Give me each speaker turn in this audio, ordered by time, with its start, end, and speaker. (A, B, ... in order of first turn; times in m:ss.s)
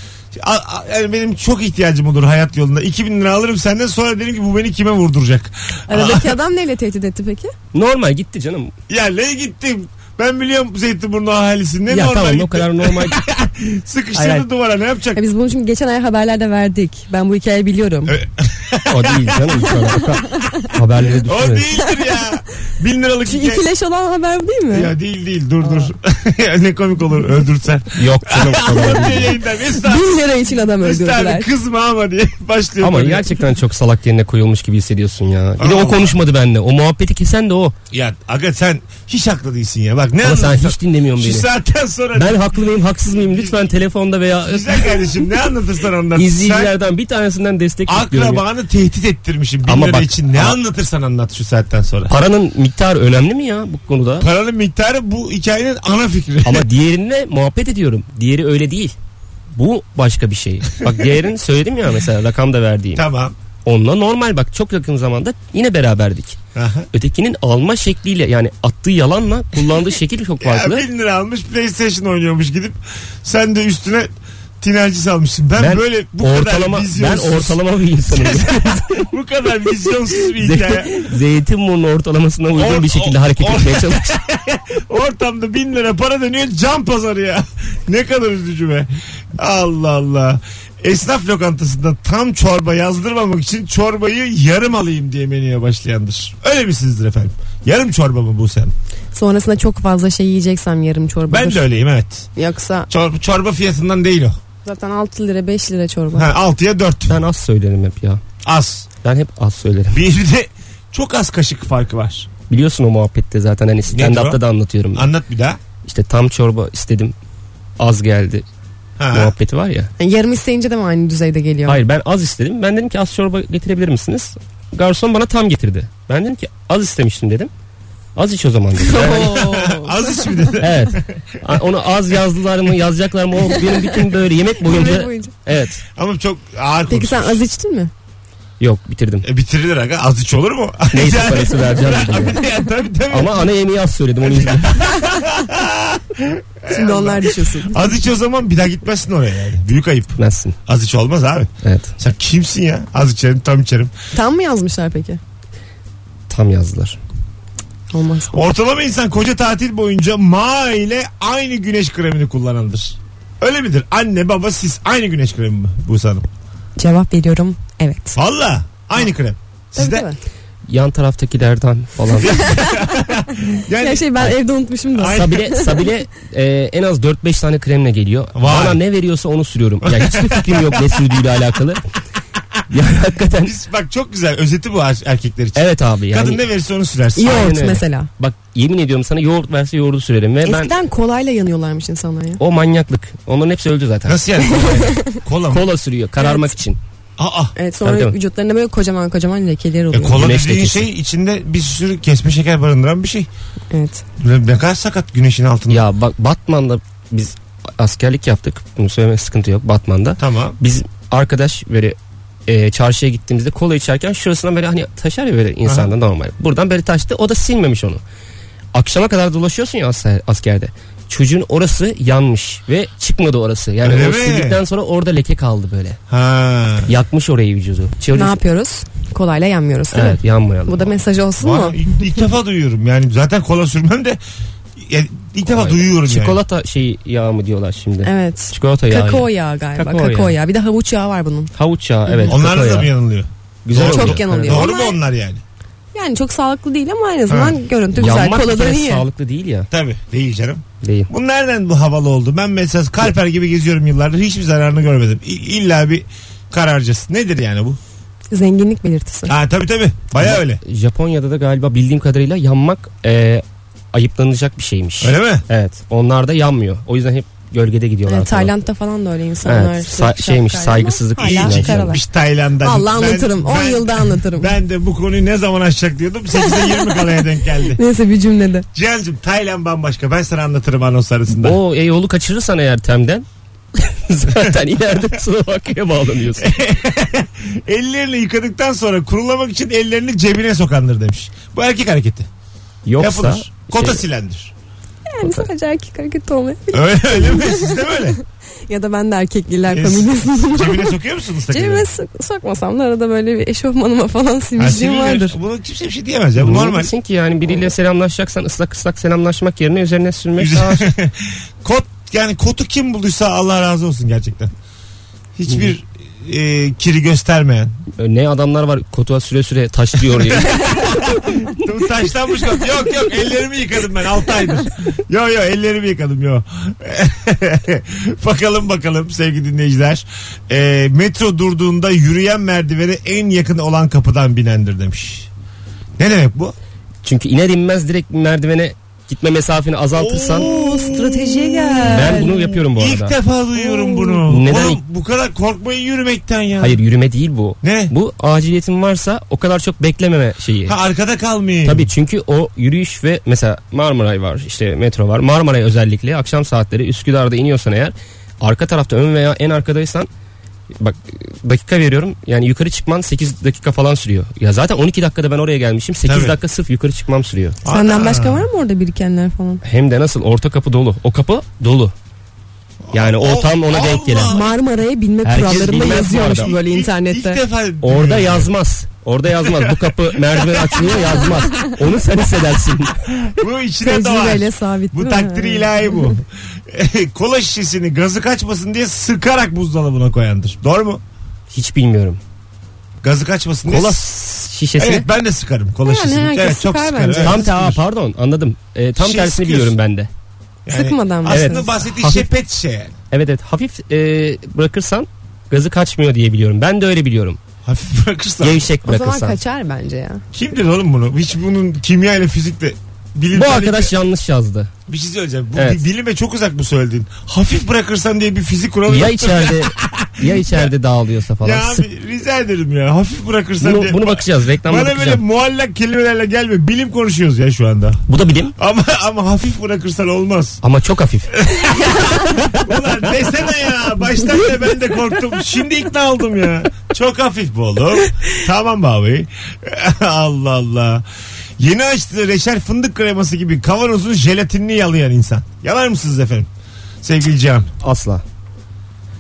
0:00.3-0:06.4 A
0:05.9-0:07.5 B
0:07.7-0:08.7 C
0:08.9-0:15.2 A
0:11.9-0:13.2 C
0:14.2-0:14.4 C
0:15.2-0:18.2 B
0:18.1-0:19.7 A
0:18.9-0:21.7 C
0:20.3-0:20.7 B
0:21.1-0:23.6 A
0:23.3-0:24.9 B
0:24.7-0:30.2 A
0:28.0-0:29.4 C
0:29.7-0:31.5 B
0:30.8-0:33.4 A
0:32.8-0:37.8 C
0:35.6-0:36.2 A
0:37.9-0:42.5 A
0:40.2-0:41.5 C
0:42.2-0:45.3 C
0:43.2-0:43.6 A
0:44.5-0:46.7 A
0:46.2-0:48.4 C
0:47.9-0:52.1 A
0:49.7-0:50.6 C
0:52.1-0:54.3 C
0:54.2-0:56.7 A
0:56.4-0:59.0 C
0:59.6-1:03.0 C
1:03.0-1:03.4 A
1:03.6-1:06.4 C
1:06.6-1:06.9 A
1:06.9-1:10.8 C
1:10.4-1:14.1 A
1:14.6-1:21.1 A
1:15.6-1:19.1 C
1:20.2-1:24.2 C
1:22.5-1:38.7 A
1:39.1-1:41.7 B
1:41.3-1:42.3 A
1:42.4-1:42.9 B
1:42.9-1:44.4 A
1:44.6-1:46.3 B
1:46.2-1:47.2 A
1:47.1-1:48.2 C
1:48.4-1:48.9 A
1:49.0-1:50.0 C
1:49.9-1:52.3 A
1:52.5-1:55.1 C
1:53.9-1:54.4 A
1:54.9-1:55.6 A
1:55.8-1:57.1 C
1:57.8-1:58.4 C
1:59.0-1:59.3 A
1:59.1-1:59.9 C
2:00.0-2:01.8 B
2:01.7-2:07.5 C
2:08.2-2:09.5 C
2:08.8-2:10.5 B
2:09.2-2:11.4 A
2:10.6-2:15.8 C
2:13.5-2:14.0 B
2:14.6-2:15.3 B
2:15.9-2:17.4 A
2:16.9-2:17.9 B
2:18.6-2:19.3 C
2:19.2-2:23.5 A
2:20.9-2:22.4 C
2:23.1-2:25.0 C
2:24.2-2:33.9 A
2:26.7-2:27.9 B
2:30.2-2:30.6 C
2:31.6-2:31.9 C
2:34.1-2:35.2 B
2:36.3-2:37.0 C
2:37.9-2:38.4 B
2:38.3-2:46.3 A
2:46.8-2:48.2 B
2:48.2-2:50.1 A
2:49.8-2:50.2 B
2:50.7-2:52.5 C
2:52.2-2:54.1 A
2:52.3-2:53.1 B
2:53.7-2:55.9 B
2:55.0-2:55.4 A
2:55.1-3:01.8 C
2:58.4-2:58.8 A
2:59.8-3:01.0 A
3:02.7-3:03.6 C
3:03.4-3:07.5 A
3:05.6-3:06.4 C
3:07.2-3:08.1 B
3:07.2-3:10.7 C
3:10.4-3:12.4 B
3:12.4-3:14.9 C
3:14.1-3:15.6 A
3:14.4-3:15.2 B
3:15.5-3:16.8 C
3:16.2-3:16.6 B
3:17.2-3:17.5 A
3:17.6-3:20.3 B
3:17.8-3:18.2 C
3:19.9-3:23.3 A
3:20.1-3:20.9 C
3:23.7-3:24.0 B
3:24.2-3:25.8 A
3:25.7-3:38.0 C
3:30.2-3:30.6 A
3:35.7-3:35.9 A
3:38.7-3:46.0 C
3:43.8-3:44.6 A
3:46.1-3:46.9 A
3:46.9-3:48.4 C
3:48.1-3:51.8 B
3:49.9-3:50.9 C
3:51.4-3:54.2 A
3:54.8-3:56.4 A
3:55.5-4:00.4 C
3:58.0-4:01.5 B
4:01.6-4:02.9 C
4:02.1-4:02.4 B
4:02.3-4:05.4 A
4:03.6-4:04.7 C
4:03.8-4:05.0 B
4:05.9-4:09.0 B
4:07.3-4:07.6 A
4:08.0-4:09.7 C
4:09.7-4:17.8 A
4:10.8-4:11.1 C
4:18.3-4:19.3 B
4:19.3-4:20.6 A
4:20.2-4:28.5 C
4:25.0-4:25.4 A
4:28.1-4:32.0 B
4:29.5-4:32.0 C
4:31.2-4:37.8 A
4:32.6-4:34.5 B
4:36.3-4:37.1 B
4:37.6-4:38.7 B
4:38.7-4:41.6 A
4:41.3-4:46.5 C
4:46.4-4:52.3 A
4:52.8-4:54.0 C
4:53.0-4:54.5 A
4:55.1-5:01.0 B
4:56.7-4:58.2 A
4:59.7-5:01.9 A
5:01.5-5:05.4 B
5:04.6-5:06.9 A
5:06.4-5:10.9 C
5:10.4-5:14.5 A
5:15.4-5:17.8 A
5:18.0-5:21.1 C
5:20.1-5:35.3 A
5:36.0-5:36.6 A
5:37.0-5:40.5 C
5:40.0-5:46.8 A
5:40.4-5:42.5 B
5:41.8-5:43.2 C
5:44.2-5:44.8 C
5:46.6-5:50.8 C
5:47.6-5:47.9 A
5:50.7-5:51.9 A
5:51.6-6:00.1 C
6:00.8-6:07.6 C
6:06.0-6:06.4 A
6:07.6-6:08.5 A
6:07.7-6:09.6 B
6:09.6-6:11.9 C
6:12.9-6:14.6 A
6:12.9-6:14.4 C
6:14.3-6:17.4 B
6:15.2-6:16.5 C
6:15.7-6:18.5 A
6:17.8-6:23.0 C
6:19.4-6:21.4 A
6:23.1-6:31.0 A
6:23.8-6:26.2 B
6:31.5-6:32.2 C
6:33.0-6:34.0 A
6:33.7-6:35.1 C
6:34.8-6:37.8 A
6:35.8-6:37.4 B
6:37.2-6:40.1 C
6:39.0-6:39.8 A
6:40.7-6:43.0 A
6:40.7-6:41.8 B
6:41.3-6:42.3 C
6:43.1-6:47.4 C
6:47.6-6:48.6 A
6:48.4-6:49.4 C
6:48.8-6:50.2 B
6:50.3-6:53.9 A
6:53.3-6:54.7 C
6:54.9-7:00.7 A
6:55.6-6:55.8 C
6:58.9-7:01.8 C
7:01.4-7:08.0 A
7:03.6-7:05.2 C
7:08.1-7:08.5 C
7:08.6-7:10.6 A
7:10.6-7:11.3 C
7:11.3-7:21.0 A
7:21.6-7:26.5 A
7:27.0-7:27.7 A
7:27.8-7:28.2 C